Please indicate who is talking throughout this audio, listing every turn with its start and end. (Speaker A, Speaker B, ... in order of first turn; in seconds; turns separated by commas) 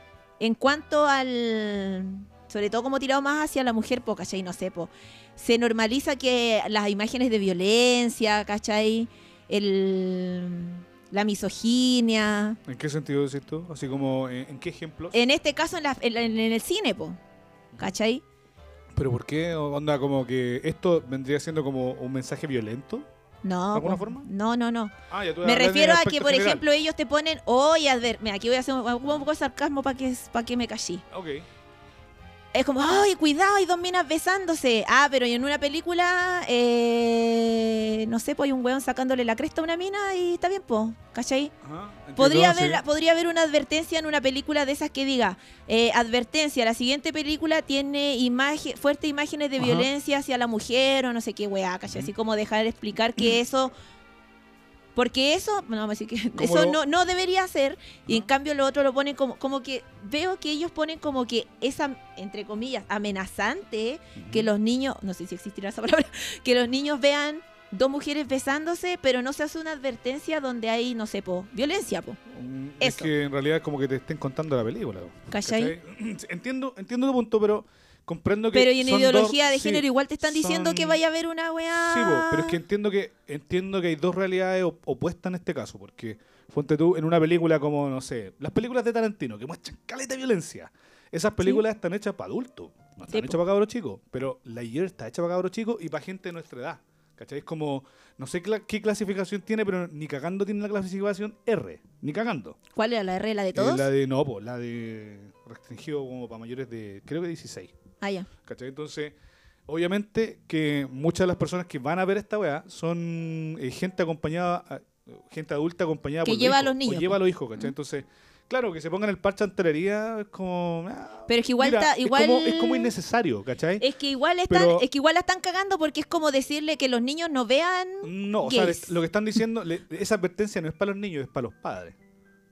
Speaker A: 0.4-12.6, Speaker B: 12.7-15.2, Speaker A: 15.1-17.2, Speaker A: 17.8-18.2, Speaker B: 18.9-23.1, Speaker A: 23.4-31.0, Speaker B: 23.7-24.3, Speaker B: 25.1-26.6, Speaker B: 31.1-31.5, Speaker A: 32.5-41.5, Speaker B: 41.6-42.8, Speaker A: 42.1-53.7, Speaker B: 49.6-49.9, Speaker A: 54.9-72.2, Speaker B: 56.4-56.8, Speaker B: 64.2-64.5, Speaker B: 72.3-81.0, Speaker A: 72.8-73.1, Speaker A: 75.3-75.8, Speaker A: 78.5-82.6, Speaker B: 81.7-102.6, Speaker A: 93.1-93.4, Speaker A: 102.7-103.9, Speaker B: 103.5-107.7, Speaker A: 108.0-108.3, Speaker B: 108.4-109.2, Speaker B: 109.7-123.8, Speaker A: 116.2-117.2, Speaker A: 121.3-122.9, Speaker A: 123.8-129.0, Speaker B: 124.5-124.8, Speaker B: 128.0-132.0